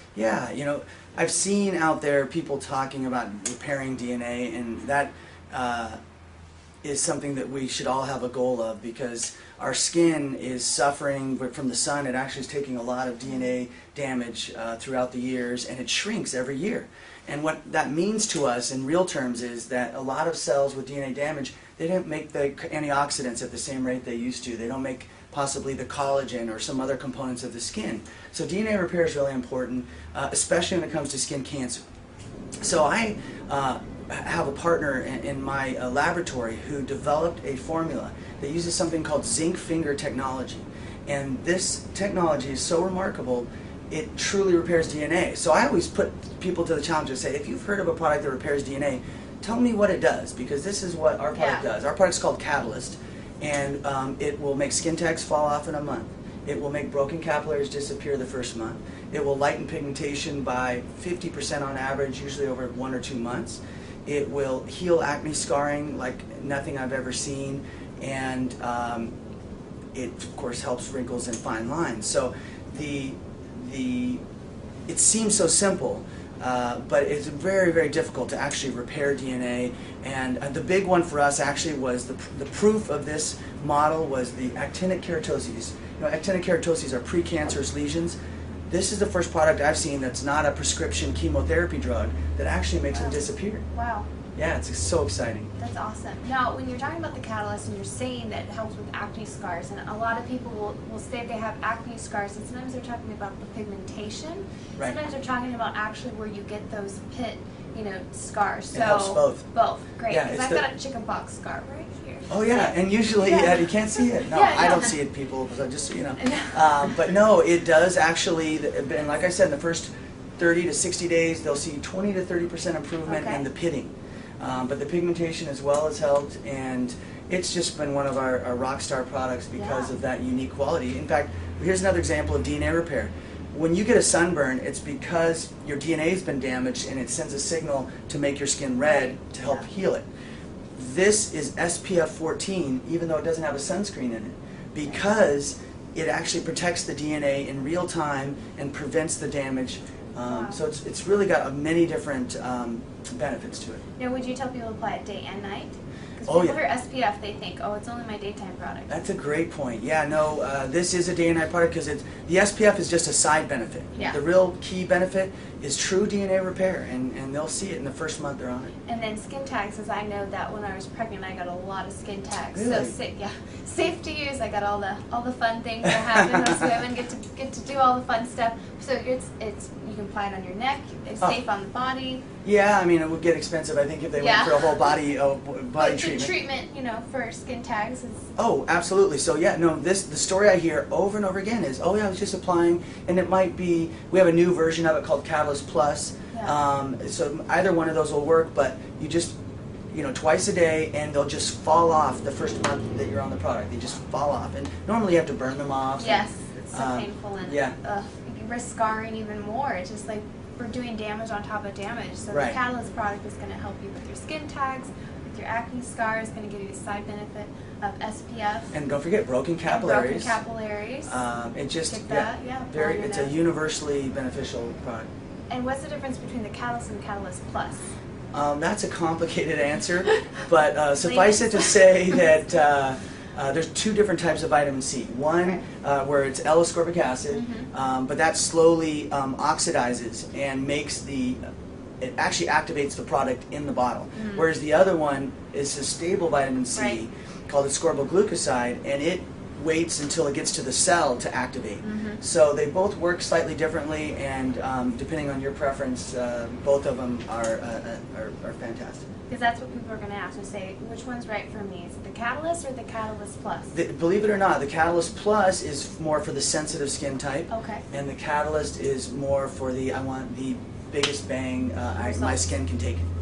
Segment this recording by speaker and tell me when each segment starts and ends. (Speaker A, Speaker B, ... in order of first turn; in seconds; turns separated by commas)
Speaker A: 0.1-6.0, Speaker A: 6.8-31.8, Speaker A: 32.6-69.1, Speaker B: 51.3-51.6, Speaker A: 69.9-74.2, Speaker A: 74.9-88.2, Speaker A: 88.7-93.6, Speaker B: 92.9-93.2, Speaker B: 93.7-94.1, Speaker A: 94.3-95.5, Speaker B: 95.6-115.0, Speaker A: 108.7-109.4, Speaker A: 110.1-110.6, Speaker A: 112.3-140.1, Speaker B: 116.2-116.9, Speaker B: 123.0-123.5, Speaker B: 129.5-129.9, Speaker B: 138.8-139.7, Speaker A: 140.7-153.8, Speaker B: 150.2-150.6, Speaker B: 154.0-158.9, Speaker A: 156.2-156.6, Speaker A: 158.9-168.7, Speaker B: 168.9-182.2, Speaker A: 172.5-172.9, Speaker A: 176.1-176.6, Speaker A: 182.4-186.3, Speaker B: 184.2-184.9, Speaker B: 185.8-188.3, Speaker A: 188.4-199.3, Speaker A: 199.9-207.7, Speaker B: 206.0-218.7, Speaker A: 212.3-212.6, Speaker A: 218.7-220.4, Speaker B: 219.7-221.2, Speaker A: 221.1-225.1, Speaker B: 221.8-223.4, Speaker B: 225.5-227.9, Speaker A: 228.3-241.4, Speaker B: 231.0-232.3, Speaker B: 237.3-237.7, Speaker A: 242.0-259.0, Speaker B: 244.1-244.4, Speaker B: 246.7-247.0, Speaker B: 251.8-252.2, Speaker B: 259.3-263.7, Speaker A: 263.7-273.1, Speaker B: 267.5-267.8, Speaker B: 271.9-272.5